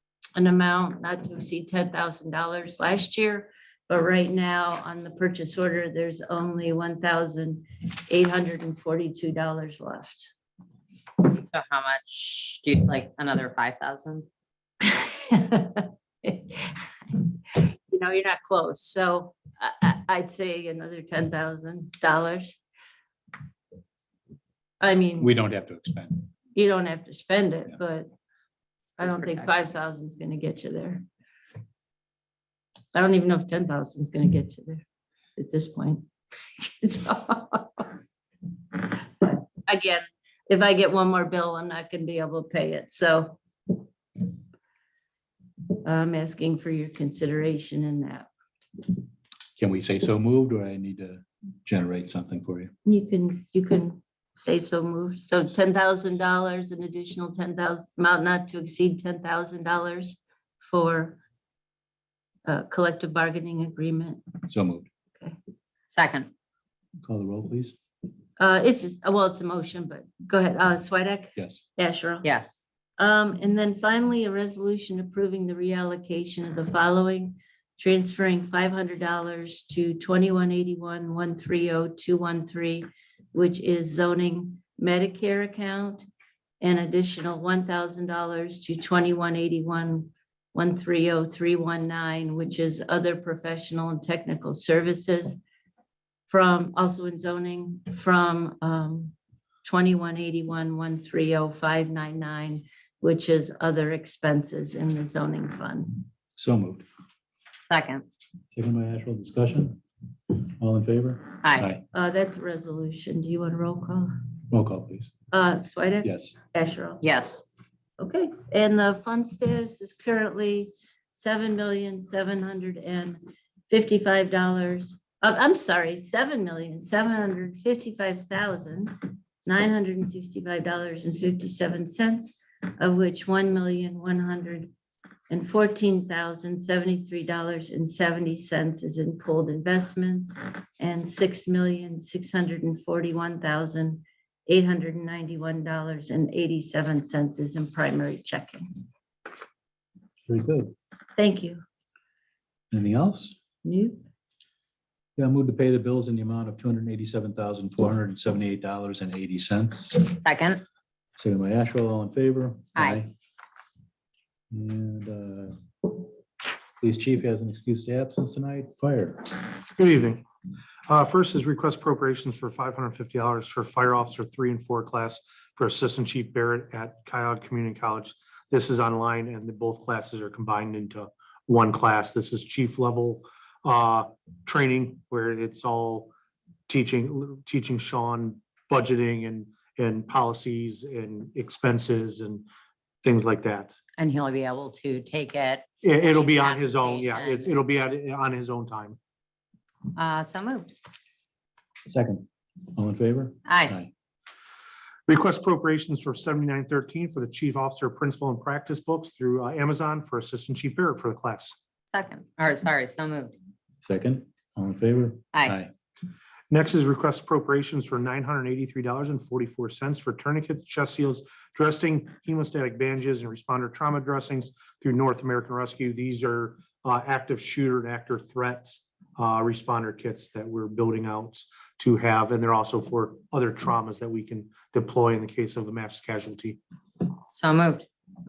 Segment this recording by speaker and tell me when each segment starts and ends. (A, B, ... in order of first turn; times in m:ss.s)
0:00.4-0:10.3 A
0:11.3-0:14.3 B
0:14.8-0:22.6 A
0:24.8-0:25.3 A
0:25.2-0:26.3 C
0:26.5-0:28.1 A
0:29.0-0:31.0 A
0:32.9-0:34.8 A
0:35.4-0:36.1 A
0:36.6-0:37.9 A
0:38.7-0:44.3 A
0:45.7-0:48.3 A
0:49.6-0:52.7 C
0:52.8-1:01.2 A
1:02.4-1:04.4 A
1:04.5-1:04.9 C
1:05.9-1:06.3 B
1:07.0-1:07.7 C
1:08.4-1:12.3 A
1:12.2-1:12.6 B
1:13.0-1:26.1 A
1:26.6-1:35.4 A
1:36.3-1:46.0 A
1:46.4-1:46.8 C
1:47.7-1:48.0 B
1:48.5-1:49.8 C
1:50.3-1:51.8 C
1:51.4-1:51.7 B
1:51.9-1:54.1 A
1:54.5-1:55.1 C
1:55.3-1:57.0 A
1:56.0-1:56.3 C
1:57.0-1:57.4 B
1:58.0-2:14.7 A
2:15.3-2:28.7 A
2:30.2-2:30.7 C
2:31.2-2:31.6 A
2:32.7-2:33.4 C
2:33.6-2:34.0 A
2:35.2-2:40.1 C
2:40.1-2:40.6 B
2:41.2-2:43.1 C
2:42.8-2:43.0 B
2:44.5-2:45.9 C
2:46.8-2:49.4 C
2:49.8-2:50.2 D
2:50.9-3:06.1 D
3:06.7-3:12.4 D
3:13.0-3:13.7 D
3:14.0-3:17.5 B
3:15.8-3:19.0 D
3:19.9-3:20.7 B
3:21.8-3:23.9 C
3:23.4-3:23.7 B
3:25.1-3:31.6 D
3:31.9-3:33.4 B
3:33.8-3:35.7 C
3:36.5-3:56.6 D
3:57.3-3:57.8 B